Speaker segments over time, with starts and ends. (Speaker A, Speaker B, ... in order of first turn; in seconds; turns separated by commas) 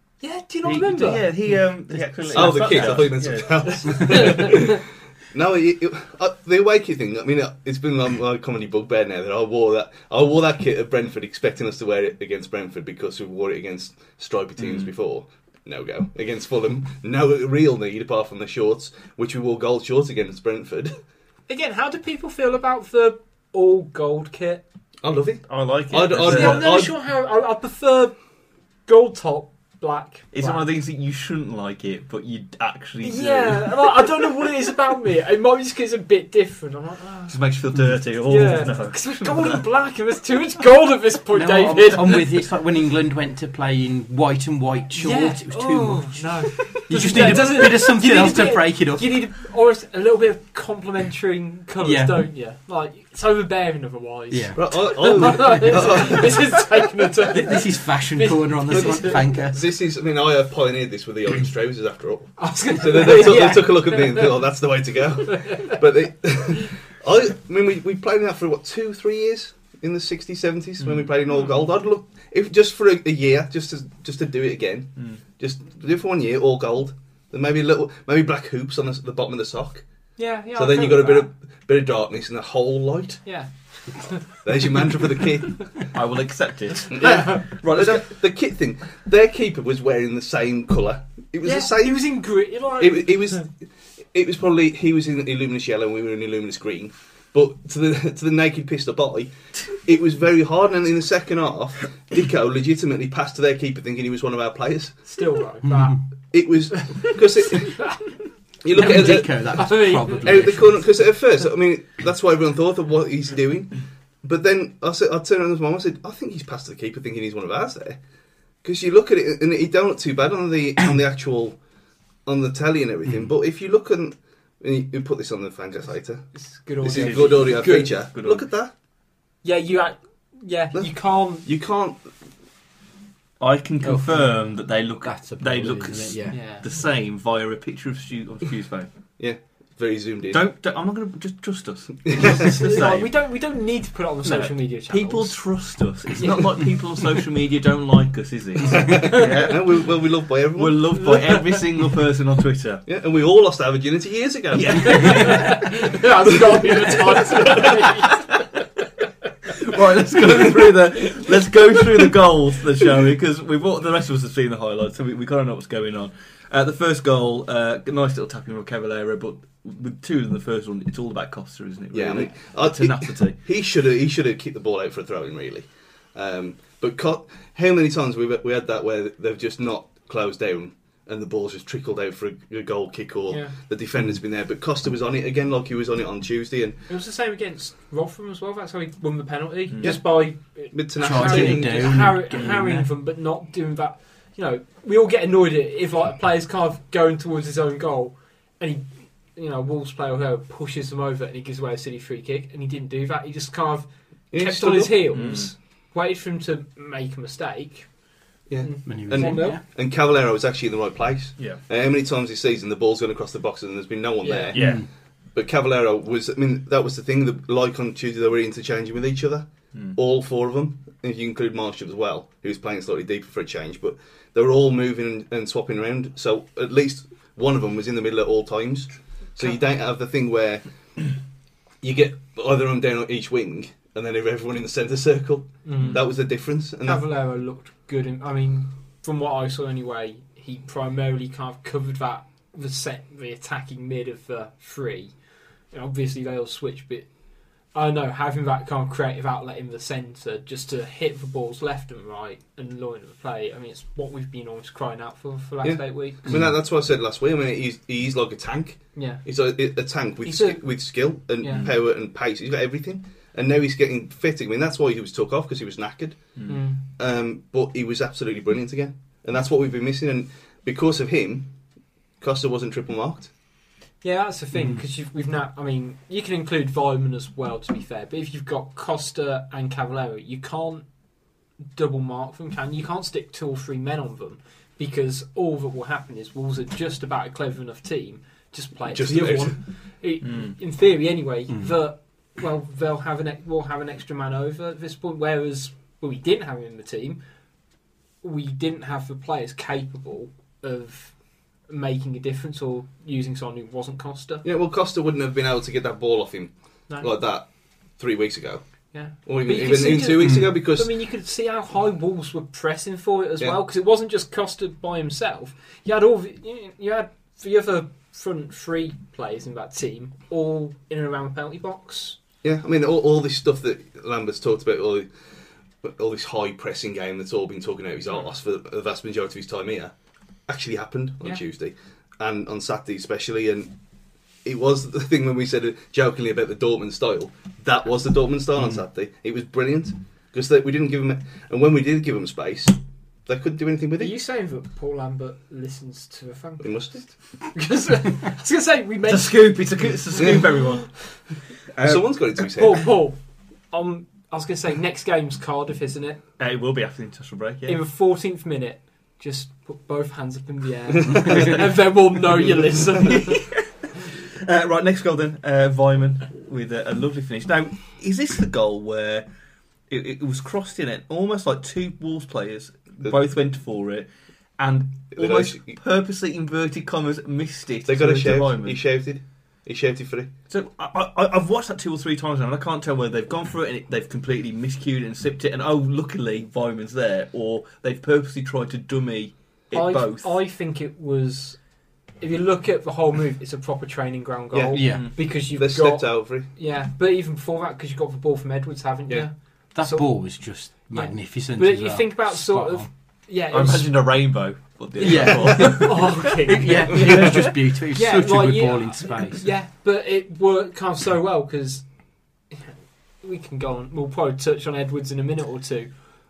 Speaker A: 0.2-1.3, Speaker B: 0.6-4.5, Speaker C: 2.0-3.0, Speaker D: 2.3-20.9, Speaker A: 3.7-4.7, Speaker B: 14.6-14.9, Speaker A: 21.5-24.6, Speaker D: 25.0-26.9, Speaker B: 25.5-26.9, Speaker A: 26.2-28.2, Speaker A: 28.9-30.7, Speaker B: 30.3-34.0, Speaker A: 33.0-37.4, Speaker B: 37.3-39.6, Speaker A: 38.2-42.3, Speaker C: 41.3-49.2, Speaker A: 44.9-59.4, Speaker C: 51.8-52.2, Speaker C: 54.3-56.1, Speaker D: 54.5-56.4, Speaker C: 57.3-59.6, Speaker D: 58.7-79.8, Speaker A: 62.4-64.4, Speaker A: 65.3-65.8, Speaker B: 70.8-71.1, Speaker A: 80.2-81.3, Speaker D: 80.5-83.2, Speaker A: 83.2-84.2, Speaker D: 84.3-85.9, Speaker B: 85.9-88.2, Speaker D: 86.9-92.2, Speaker A: 87.0-87.3, Speaker A: 91.4-93.4, Speaker D: 92.8-105.0, Speaker A: 105.0-106.0, Speaker D: 106.3-108.1, Speaker A: 107.5-108.0, Speaker D: 108.6-118.0, Speaker C: 108.7-111.0, Speaker A: 108.8-110.4, Speaker D: 118.6-121.6, Speaker D: 122.2-128.7, Speaker A: 126.3-127.9, Speaker B: 126.9-128.4, Speaker A: 129.4-131.5, Speaker D: 130.7-132.1, Speaker B: 133.4-138.9, Speaker C: 133.8-136.4, Speaker A: 136.3-136.7, Speaker D: 139.2-140.4, Speaker B: 140.3-143.2, Speaker D: 142.1-142.7, Speaker A: 142.2-145.5, Speaker B: 144.2-149.8, Speaker A: 146.2-146.7, Speaker D: 148.7-151.0, Speaker B: 150.6-152.8, Speaker A: 151.0-151.6, Speaker D: 152.8-155.6, Speaker B: 154.5-155.7, Speaker A: 154.9-158.3, Speaker B: 159.4-173.4, Speaker D: 171.9-186.8, Speaker A: 183.3-183.5, Speaker A: 186.9-207.9, Speaker B: 189.7-190.0, Speaker D: 189.8-191.9, Speaker C: 191.0-192.9, Speaker D: 204.3-205.1, Speaker B: 205.1-205.5, Speaker D: 208.5-214.8, Speaker A: 208.6-209.6, Speaker C: 208.8-209.6, Speaker A: 214.2-214.6, Speaker B: 214.5-214.8, Speaker C: 214.5-214.8, Speaker D: 215.3-230.6, Speaker D: 231.8-237.0, Speaker A: 235.6-236.2, Speaker A: 236.8-245.1, Speaker A: 245.7-247.1, Speaker A: 247.7-256.4, Speaker D: 255.6-271.5, Speaker A: 258.9-259.2, Speaker A: 260.2-261.7, Speaker A: 266.5-266.8, Speaker D: 272.2-273.3, Speaker A: 274.0-280.9, Speaker A: 281.7-297.2, Speaker D: 288.9-289.6, Speaker B: 290.2-290.6, Speaker A: 298.2-304.4, Speaker D: 304.4-308.6, Speaker A: 308.9-322.2, Speaker D: 309.2-310.9, Speaker C: 310.2-310.5, Speaker D: 322.4-325.1, Speaker D: 325.8-329.9, Speaker D: 330.5-333.8, Speaker D: 334.4-344.1, Speaker A: 344.0-350.6, Speaker D: 346.6-347.1, Speaker B: 349.1-351.2, Speaker B: 351.7-352.3, Speaker D: 351.8-352.9, Speaker A: 352.5-356.2, Speaker B: 356.4-357.8, Speaker A: 357.6-363.4, Speaker B: 363.0-369.3, Speaker B: 369.9-378.8, Speaker D: 375.1-375.7, Speaker D: 377.9-380.3, Speaker B: 380.5-390.4, Speaker A: 389.7-391.6, Speaker A: 392.2-404.1, Speaker D: 394.5-396.5, Speaker C: 394.7-395.1, Speaker C: 399.7-402.9, Speaker B: 403.5-407.5, Speaker A: 405.0-411.9, Speaker C: 405.0-409.5, Speaker A: 412.5-415.9